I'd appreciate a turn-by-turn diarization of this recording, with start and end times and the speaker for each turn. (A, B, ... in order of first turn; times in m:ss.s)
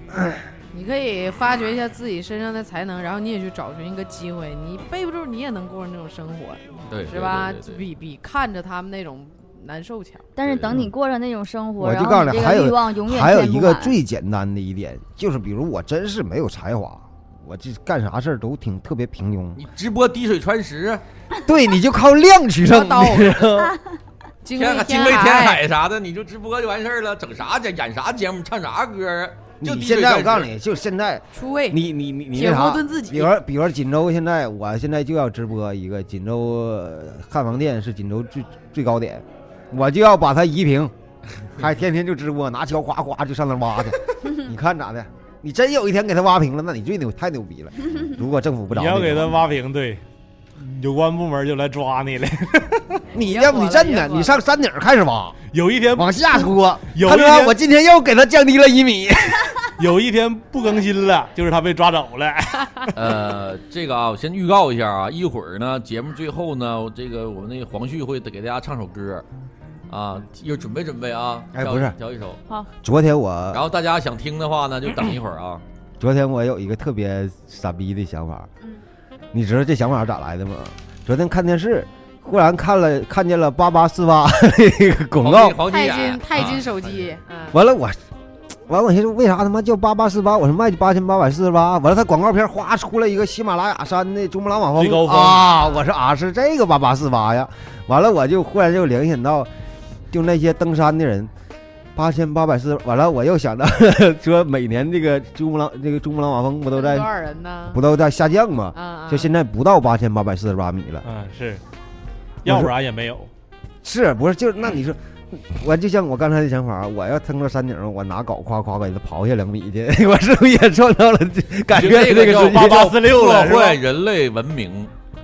0:00.1-0:00.5 A
0:00.7-0:10.3 B
0:06.9-0:07.8 C
0:10.4-0:14.0 D
0:10.4-0:10.9 C
0:11.8-0:19.6 A
0:19.6-0:21.0 C
0:21.4-0:23.7 A
0:22.6-0:23.6 B
0:24.4-0:25.6 B
0:24.5-0:30.5 C
0:29.6-0:40.9 A
0:31.3-0:31.8 B
0:32.3-0:33.3 B
0:41.5-0:49.4 A
0:48.7-0:50.0 E
0:50.6-0:53.0 E
0:53.1-0:55.4 A
0:53.2-0:54.4 B
0:55.5-0:57.5 E
0:55.9-0:59.6 A
0:59.8-1:02.9 E
1:02.9-1:09.2 C
1:09.9-1:12.4 C
1:11.5-1:11.9 A
1:12.8-1:13.6 A
1:13.5-1:15.6 C
1:16.0-1:18.5 A
1:19.3-1:25.6 A
1:25.2-1:26.7 C
1:25.7-1:27.6 B
1:27.5-1:28.0 A
1:28.7-1:39.5 A
1:34.8-1:35.5 E
1:40.1-1:41.3 A
1:41.9-1:47.1 A
1:46.7-1:47.8 B
1:47.7-1:51.0 A
1:48.7-1:49.3 B
1:51.0-1:51.6 E
1:52.4-1:53.3 E
1:52.4-1:52.7 A
1:53.8-2:02.9 A
2:01.7-2:04.9 C
2:02.3-2:03.8 E